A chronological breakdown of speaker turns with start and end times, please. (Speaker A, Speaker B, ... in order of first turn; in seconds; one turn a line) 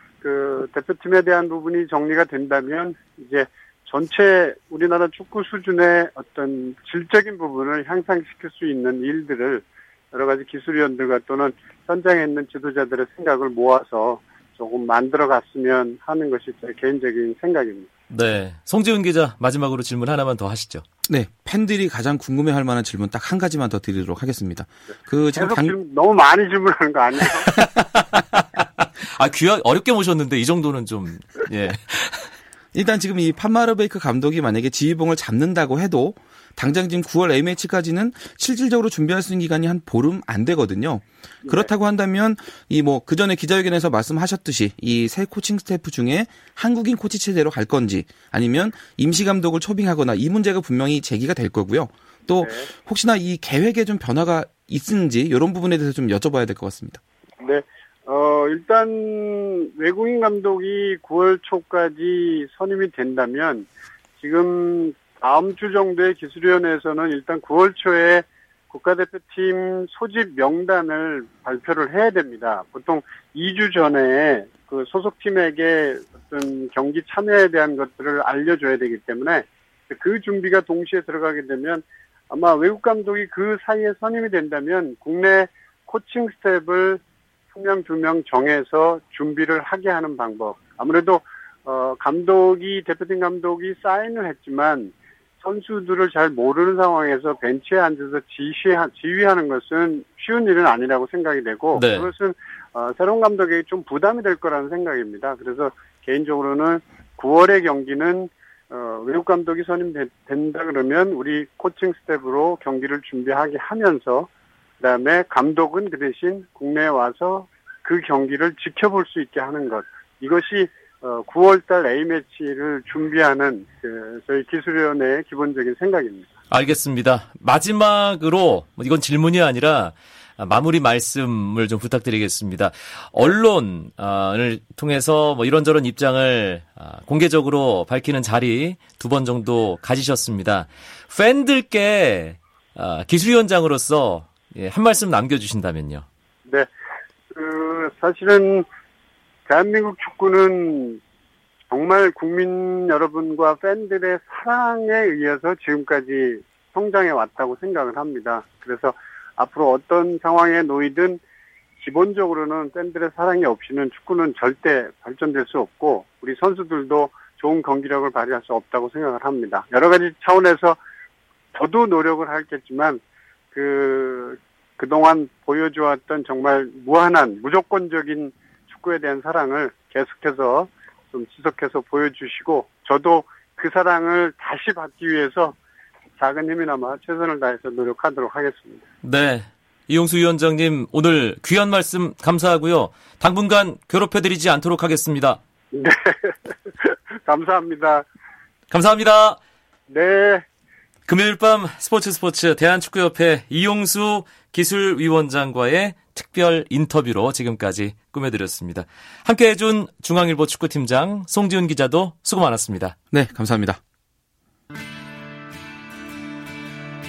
Speaker A: 0.2-17.9
Speaker B: 18.1-20.8
Speaker C: 21.1-25.8
Speaker A: 25.4-27.5
Speaker B: 27.5-32.3
Speaker C: 32.7-57.0
Speaker A: 52.4-52.7
Speaker A: 57.4-63.7
Speaker A: 64.2-87.0
Speaker A: 87.5-114.3
Speaker B: 101.7-102.1
Speaker A: 114.8-126.3
Speaker B: 126.5-146.0
Speaker A: 147.3-148.7
Speaker A: 149.5-151.0
Speaker A: 151.7-161.2
Speaker A: 161.8-170.8
Speaker A: 171.5-173.0
Speaker A: 173.5-185.5
Speaker A: 186.2-188.8
Speaker B: 189.0-195.4
Speaker A: 195.7-198.1
Speaker B: 198.7-199.4
Speaker A: 199.9-200.4
Speaker B: 201.1-212.9
Speaker C: 213.1-213.8